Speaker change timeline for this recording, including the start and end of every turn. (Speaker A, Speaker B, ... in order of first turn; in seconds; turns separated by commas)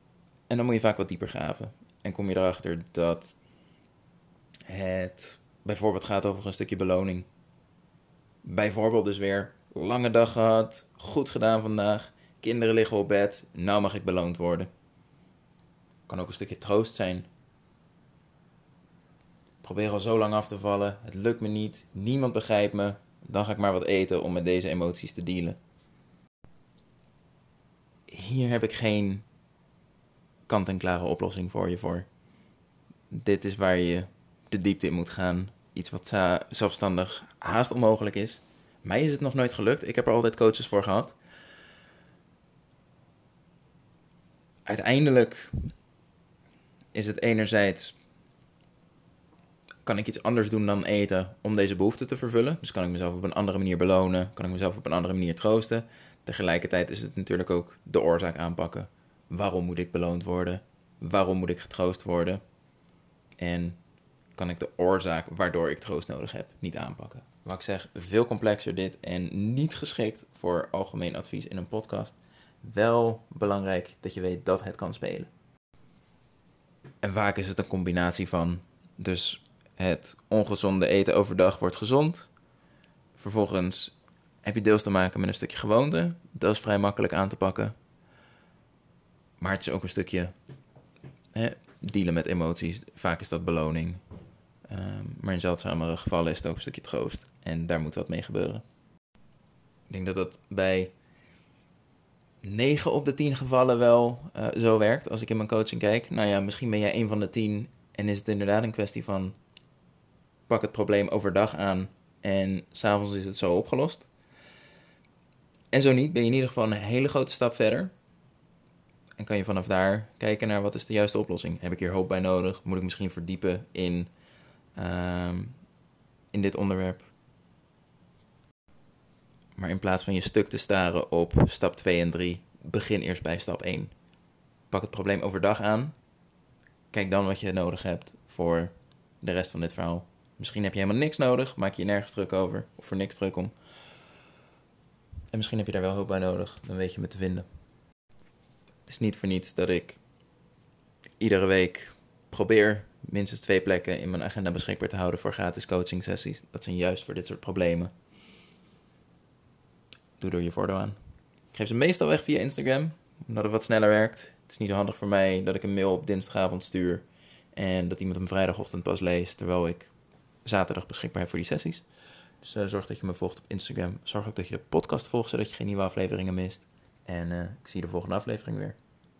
Speaker A: 0.5-3.4, Speaker A: 4.7-7.3, Speaker A: 8.4-14.7, Speaker A: 16.1-17.3, Speaker A: 19.6-25.6, Speaker A: 28.1-29.2, Speaker A: 30.5-32.1, Speaker A: 33.1-41.1, Speaker A: 44.6-45.7, Speaker A: 46.9-47.9, Speaker A: 49.8-62.4, Speaker A: 63.4-63.8, Speaker A: 64.3-75.3, Speaker A: 77.0-82.3, Speaker A: 83.2-87.8, Speaker A: 89.4-90.3, Speaker A: 91.3-94.0, Speaker A: 94.7-98.6, Speaker A: 99.9-100.9, Speaker A: 102.4-109.3, Speaker A: 110.5-114.1, Speaker A: 115.7-117.9, Speaker A: 119.2-124.1, Speaker A: 124.8-125.5, Speaker A: 126.3-127.1, Speaker A: 129.6-133.9, Speaker A: 134.7-135.9, Speaker A: 136.9-143.5, Speaker A: 145.3-147.4, Speaker A: 148.8-150.0, Speaker A: 151.2-157.9, Speaker A: 160.2-160.9, Speaker A: 161.5-169.9, Speaker A: 170.4-171.8, Speaker A: 172.4-178.8